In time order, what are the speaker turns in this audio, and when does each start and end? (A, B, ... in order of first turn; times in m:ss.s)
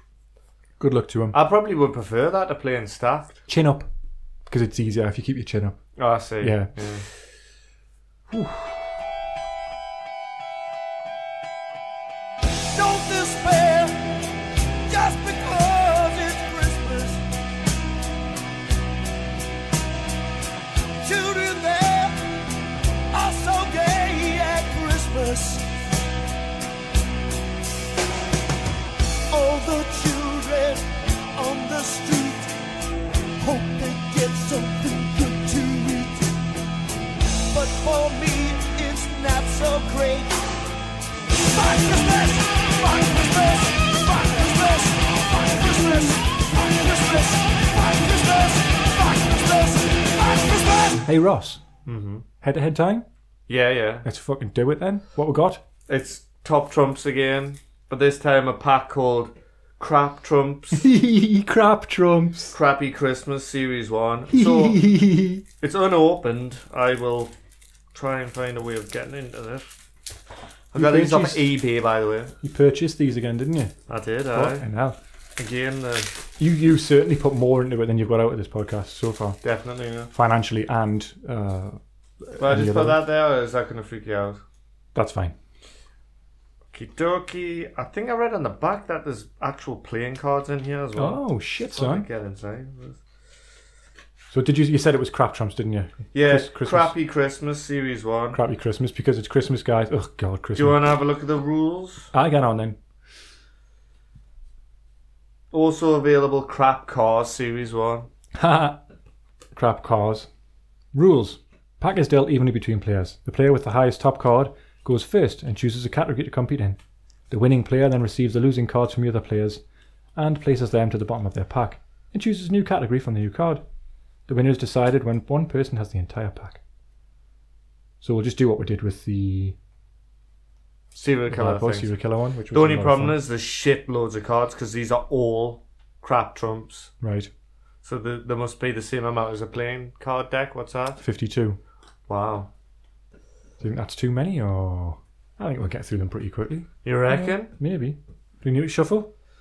0:00.8-0:01.4 A
0:01.3-0:03.4 B
0:03.5-0:03.9 A
0:04.5-0:05.9 A
0:06.0-0:07.1 B
0:06.4-0:06.7 A
0:08.3-0:08.7 A
0:12.7-0:14.2 C
0:14.9-0:17.2 C
0:21.0-0:22.2 C
0:23.1-0:25.6 C
0:29.3-0:30.8 C
0:31.4-0:32.5 C
0:33.4-0:36.3 C
0:37.5-0:40.4 C
0:41.5-0:51.0 C
0:51.0-0:51.6 A
0:51.9-0:52.2 B
0:52.4-0:53.1 A
0:53.5-0:54.0 B
0:54.0-0:55.6 A
0:55.9-1:00.8 B
1:00.7-1:02.5 A
1:02.5-1:04.8 B
1:04.3-1:05.4 A
1:05.6-1:07.3 B
1:07.9-1:09.7 B
1:10.7-1:12.3 B
1:10.8-1:11.5 A
1:12.4-1:13.8 A
1:13.9-1:14.6 B
1:14.3-1:15.0 A
1:15.4-1:16.1 B
1:16.4-1:19.4 A
1:19.4-1:20.1 B
1:20.1-1:23.0 A
1:22.4-1:24.4 B
1:25.0-1:25.4 A
1:26.7-1:33.0 B
1:31.0-1:32.1 A
1:34.3-1:36.9 A
1:36.1-1:38.4 B
1:38.3-1:40.9 A
1:40.6-1:42.1 B
1:42.1-1:42.8 A
1:45.5-1:48.1 B
1:48.4-1:48.8 A
1:49.6-1:50.3 A
1:50.9-1:56.8 A
1:57.3-1:59.6 A
2:00.2-2:03.6 A
2:04.3-2:06.6 A
2:08.0-2:09.6 A
2:10.9-2:11.9 B
2:11.3-2:13.2 A
2:12.5-2:16.9 B
2:17.0-2:17.3 A
2:17.8-2:21.0 B
2:21.0-2:21.6 A
2:22.1-2:22.5 B
2:23.6-2:29.1 A
2:26.8-2:27.5 B